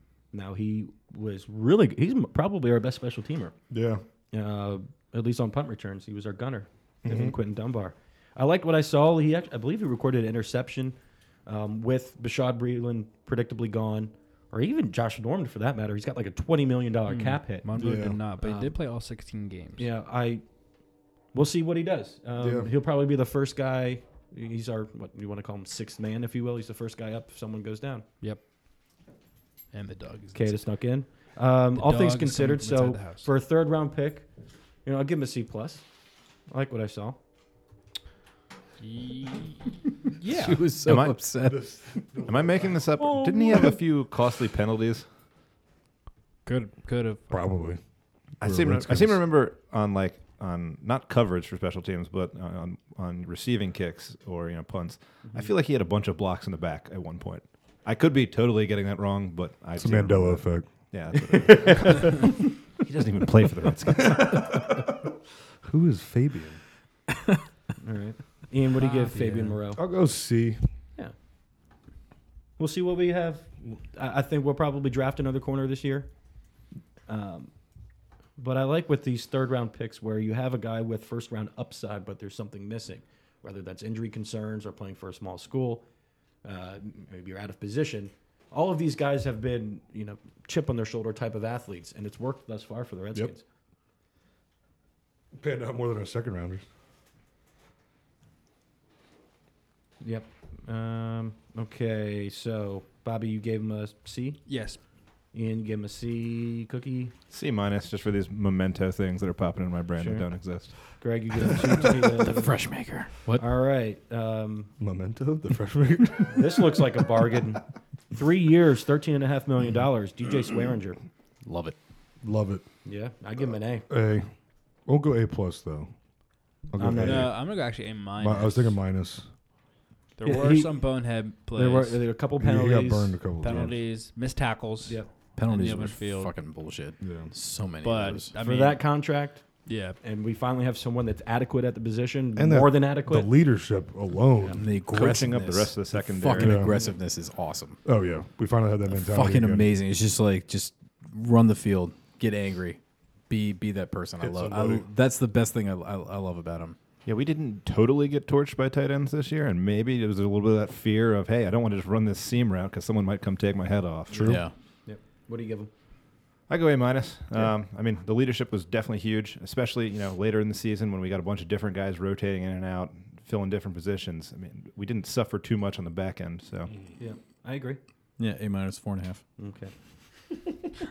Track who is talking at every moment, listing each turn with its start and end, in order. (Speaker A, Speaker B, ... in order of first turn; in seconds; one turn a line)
Speaker A: 0.3-3.5
Speaker B: 3.7-4.0
Speaker A: 4.3-18.7
Speaker B: 7.0-7.4
Speaker C: 17.1-19.9
Speaker B: 17.8-18.2
Speaker A: 19.8-20.4
Speaker A: 21.3-28.1
Speaker B: 22.4-22.7
Speaker C: 29.7-30.6
Speaker A: 30.3-34.3
Speaker C: 31.7-33.3
Speaker A: 34.9-35.9
Speaker A: 36.5-37.2
Speaker C: 38.8-40.7
Speaker D: 40.3-42.0
Speaker E: 40.8-41.2
Speaker B: 41.4-43.0
Speaker E: 42.3-45.0
Speaker C: 43.0-43.6
Speaker C: 46.5-47.4
Speaker B: 47.3-47.8
Speaker E: 48.4-64.7
Speaker B: 48.4-49.2
Speaker B: 59.8-62.1
Speaker B: 64.0-64.9
Speaker B: 65.6-66.6
Speaker A: 67.8-69.8
Speaker C: 68.8-69.6
Speaker B: 69.8-70.6
Speaker A: 72.6-76.1
Speaker A: 77.1-77.5
Speaker A: 78.4-85.8
Speaker A: 86.4-93.4
Speaker B: 95.3-96.6
Speaker A: 100.0-104.4
Speaker C: 104.5-104.8
Speaker A: 105.3-107.1
Speaker E: 107.3-110.8
Speaker A: 110.0-112.7
Speaker D: 112.1-113.5
Speaker A: 113.4-114.7
Speaker B: 114.8-117.0
Speaker A: 116.3-121.0
Speaker D: 121.5-121.8
Speaker B: 122.2-122.6
Speaker A: 122.8-123.9
Speaker B: 123.9-124.3
Speaker B: 124.9-125.9
Speaker B: 126.7-127.5
Speaker A: 126.8-127.3
Speaker C: 127.0-128.8
Speaker B: 128.2-129.3
Speaker C: 130.2-132.0
Speaker A: 130.2-130.8
Speaker A: 131.5-133.6
Speaker B: 132.4-133.8
Speaker C: 133.4-136.3
Speaker D: 135.4-138.3
Speaker B: 137.0-137.3
Speaker C: 137.8-138.9
Speaker A: 138.4-143.3
Speaker C: 139.7-140.0
Speaker B: 142.4-144.6
Speaker D: 144.5-147.8
Speaker E: 144.9-146.7
Speaker B: 146.4-146.8
Speaker B: 147.8-149.7
Speaker D: 148.9-152.8
Speaker D: 153.3-156.8
Speaker B: 154.2-154.9
Speaker E: 157.1-164.4
Speaker A: 164.1-165.7
Speaker D: 164.2-164.5
Speaker E: 166.5-176.7
Speaker A: 177.0-177.8
Speaker D: 178.2-179.2
Speaker A: 179.4-179.7